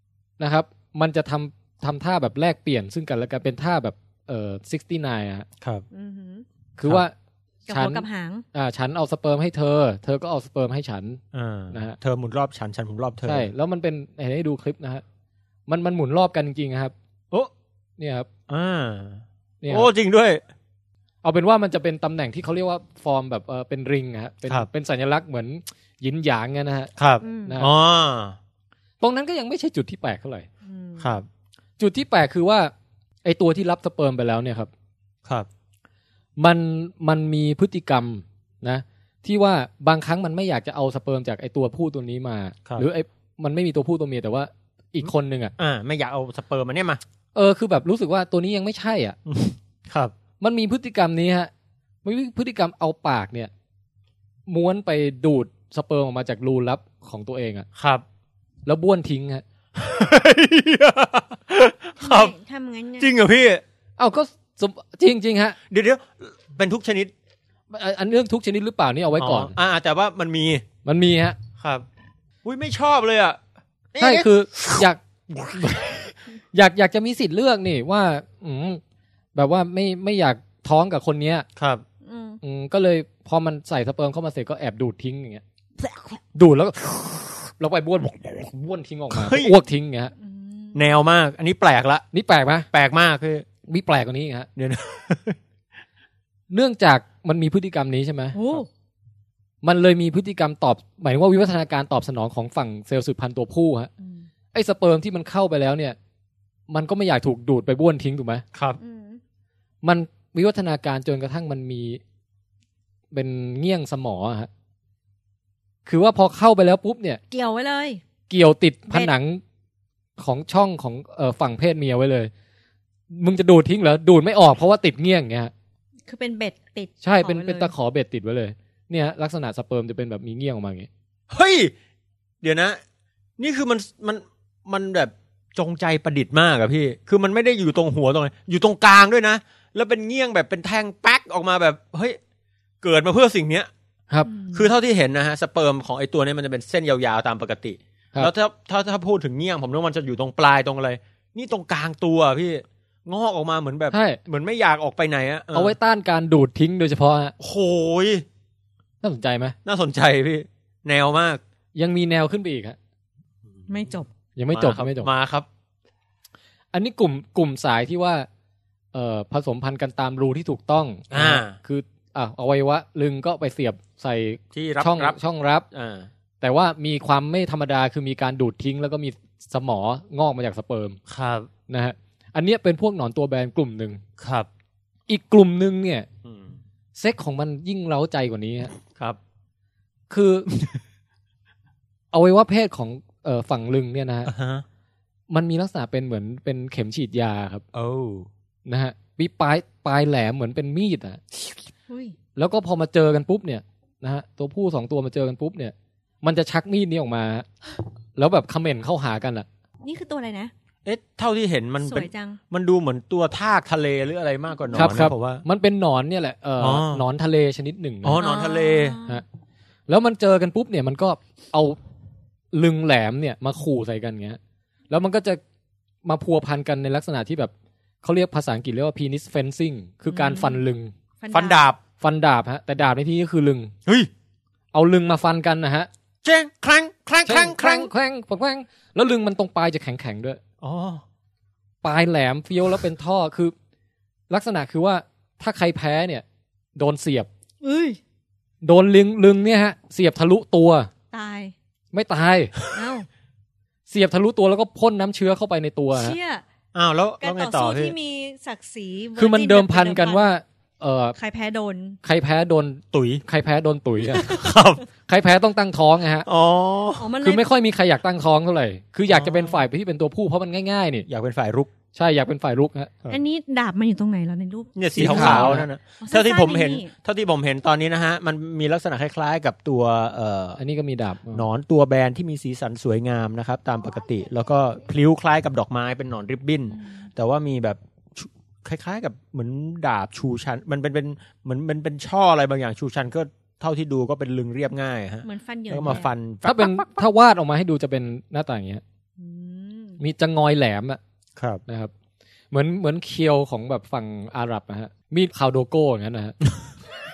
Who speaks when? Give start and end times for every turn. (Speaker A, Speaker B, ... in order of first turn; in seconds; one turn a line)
Speaker A: 0.4-5.5
Speaker B: 5.9-6.4
Speaker A: 6.8-7.1
Speaker B: 7.7-8.4
Speaker A: 7.7-11.2
Speaker C: 11.3-13.5
Speaker A: 11.7-12.0
Speaker A: 13.2-15.0
Speaker A: 15.7-16.9
Speaker A: 18.0-18.3
Speaker C: 18.5-20.4
Speaker A: 19.6-19.9
Speaker A: 21.2-27.7
Speaker C: 27.0-28.4
Speaker B: 27.2-27.6
Speaker A: 29.0-30.5
Speaker B: 30.6-31.1
Speaker C: 31.0-31.2
Speaker A: 31.8-32.7
Speaker A: 33.2-34.7
Speaker A: 36.4-45.5
Speaker C: 45.6-47.0
Speaker A: 47.3-49.2
Speaker C: 49.3-50.1
Speaker A: 50.4-51.5
Speaker A: 52.0-53.5
Speaker A: 54.5-57.7
Speaker C: 57.8-58.0
Speaker A: 58.6-59.4
Speaker C: 59.8-62.3
Speaker B: 62.0-63.1
Speaker C: 63.0-63.6
Speaker A: 64.0-65.6
Speaker C: 65.7-67.1
Speaker A: 67.7-69.5
Speaker C: 69.2-70.6
Speaker A: 70.8-71.4
Speaker C: 71.6-71.9
Speaker C: 72.4-73.4
Speaker C: 73.9-74.9
Speaker A: 74.0-78.8
Speaker A: 79.3-81.5
Speaker C: 81.5-81.8
Speaker B: 82.0-82.4
Speaker A: 82.4-85.4
Speaker A: 86.3-90.1
Speaker C: 89.1-89.6
Speaker B: 90.2-90.9
Speaker C: 90.7-92.0
Speaker A: 92.1-92.7
Speaker C: 92.7-93.5
Speaker A: 93.7-94.5
Speaker C: 94.5-95.4
Speaker A: 96.5-98.4
Speaker B: 98.3-98.7
Speaker A: 99.6-103.9
Speaker B: 104.0-104.3
Speaker A: 104.5-106.0
Speaker A: 106.7-108.4
Speaker B: 108.8-109.2
Speaker A: 109.8-112.0
Speaker A: 113.1-114.5
Speaker A: 115.9-117.2
Speaker B: 117.3-118.0
Speaker A: 118.3-119.4
Speaker A: 120.2-122.3
Speaker A: 123.1-125.5
Speaker B: 126.1-127.7
Speaker A: 127.0-130.9
Speaker C: 131.3-131.7
Speaker C: 132.4-132.8
Speaker C: 133.4-142.2
Speaker C: 142.8-143.7
Speaker B: 144.2-144.7
Speaker C: 144.5-155.7
Speaker A: 153.9-154.2
Speaker A: 155.5-157.3
Speaker C: 157.4-158.2
Speaker A: 159.0-159.6
Speaker C: 159.6-161.4
Speaker A: 161.7-162.8
Speaker B: 163.7-164.1
Speaker A: 164.4-165.1
Speaker C: 164.5-165.5
Speaker A: 166.7-168.3
Speaker A: 168.9-175.7
Speaker C: 171.1-171.6
Speaker C: 174.5-175.2
Speaker C: 175.7-176.1
Speaker A: 176.4-181.0
Speaker C: 181.1-181.5
Speaker A: 181.7-184.0
Speaker C: 184.2-184.5
Speaker A: 185.1-186.1
Speaker C: 186.2-186.6
Speaker A: 186.9-188.7
Speaker C: 188.9-189.2
Speaker A: 190.1-190.6
Speaker A: 192.1-194.3
Speaker C: 194.2-194.6
Speaker A: 195.3-197.6
Speaker C: 197.7-198.3
Speaker A: 198.7-201.4
Speaker B: 201.9-202.2
Speaker A: 202.4-207.5
Speaker A: 208.2-209.4
Speaker B: 209.8-210.5
Speaker C: 210.8-215.4
Speaker B: 211.8-212.4
Speaker A: 214.7-218.2
Speaker C: 216.6-217.0
Speaker C: 218.0-219.0
Speaker B: 218.1-219.2
Speaker A: 219.9-221.8
Speaker A: 222.5-224.4
Speaker A: 224.9-225.4
Speaker A: 226.0-227.5
Speaker A: 228.0-230.9
Speaker B: 230.1-230.6
Speaker B: 231.2-231.6
Speaker C: 231.3-231.8
Speaker A: 232.0-233.7
Speaker A: 234.7-235.9
Speaker C: 236.2-237.9
Speaker A: 237.2-240.4
Speaker C: 240.6-241.0
Speaker A: 241.8-243.5
Speaker A: 244.3-246.2
Speaker A: 246.8-247.3
Speaker B: 247.6-248.0
Speaker A: 248.6-250.9
Speaker B: 251.1-251.5
Speaker A: 251.9-252.5
Speaker B: 252.7-253.1
Speaker A: 253.9-256.1
Speaker B: 255.9-256.4
Speaker C: 256.7-257.9
Speaker B: 257.2-260.2
Speaker A: 259.2-261.1
Speaker B: 261.2-262.0
Speaker A: 262.0-264.4
Speaker C: 262.9-263.2
Speaker C: 264.2-264.8
Speaker A: 265.1-266.3
Speaker C: 266.2-267.1
Speaker B: 267.0-267.4
Speaker A: 267.2-271.1
Speaker C: 269.1-269.6
Speaker C: 271.1-271.7
Speaker A: 271.9-273.0
Speaker B: 273.1-276.9
Speaker C: 274.8-280.6
Speaker A: 274.9-275.7
Speaker A: 280.6-281.4
Speaker C: 281.3-296.9
Speaker B: 286.8-287.1
Speaker B: 295.2-296.1
Speaker A: 296.4-298.8
Speaker B: 299.2-300.0
Speaker A: 300.0-301.0
Speaker C: 301.4-301.6
Speaker A: 301.6-301.9
Speaker A: 302.5-306.4